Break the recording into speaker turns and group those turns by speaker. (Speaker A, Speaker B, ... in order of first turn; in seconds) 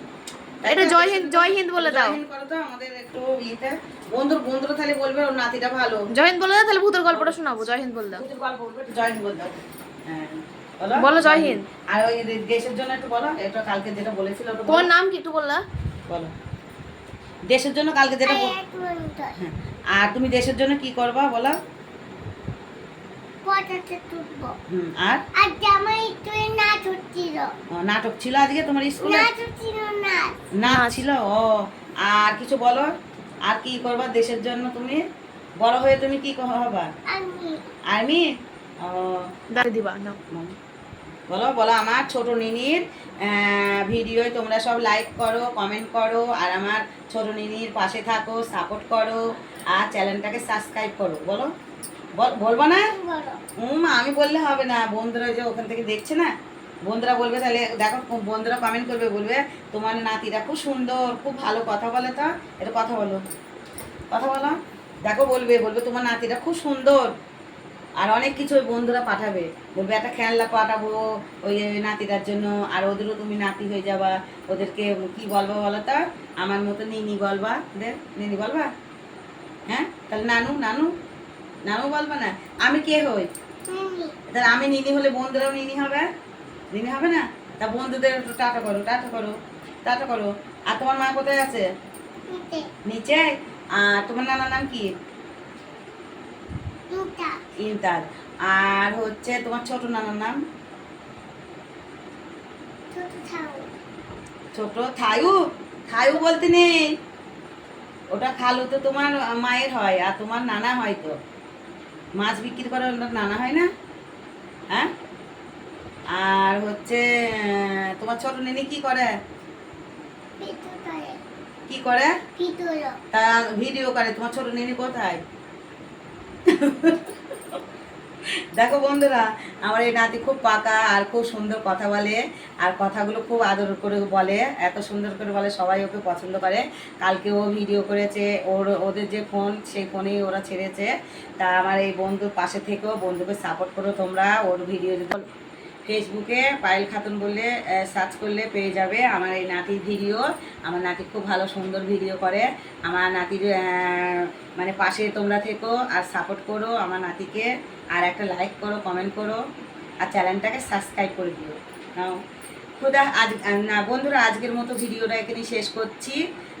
Speaker A: 0.6-6.0, 8.1-14.9, 16.1-16.3, 17.5-18.5, 19.4-21.6, 24.7-25.2, 27.7-29.3, 30.5-31.5, 32.0-32.9, 33.5-35.0, 35.6-36.9, 37.9-38.2, 38.8-39.3, 41.3-49.2, 49.7-51.5, 52.2-52.9, 53.6-56.3, 56.8-63.2, 64.1-67.1, 68.0-78.7, 79.7-80.9, 81.7-83.3, 84.3-86.0, 86.7-91.6, 92.9-94.9, 97.6-100.4, 104.5-105.4, 105.9-106.9, 108.1-111.1, 112.2-113.7, 116.1-119.1, 121.7-122.2, 123.1-125.2, 126.5-127.6, 128.6-145.2, 145.8-159.4, 160.0-162.2, 162.8-166.2
Speaker B: 0.7-2.2, 6.1-8.2, 11.0-11.7, 14.7-15.6, 30.7-31.1, 39.5-40.2
Speaker C: 18.2-19.4, 23.4-24.5, 25.3-27.5, 29.0-30.3, 37.1-37.6, 52.9-53.4, 83.7-84.1, 92.3-92.7, 96.9-97.4, 102.9-103.7, 120.4-121.2, 122.4-123.0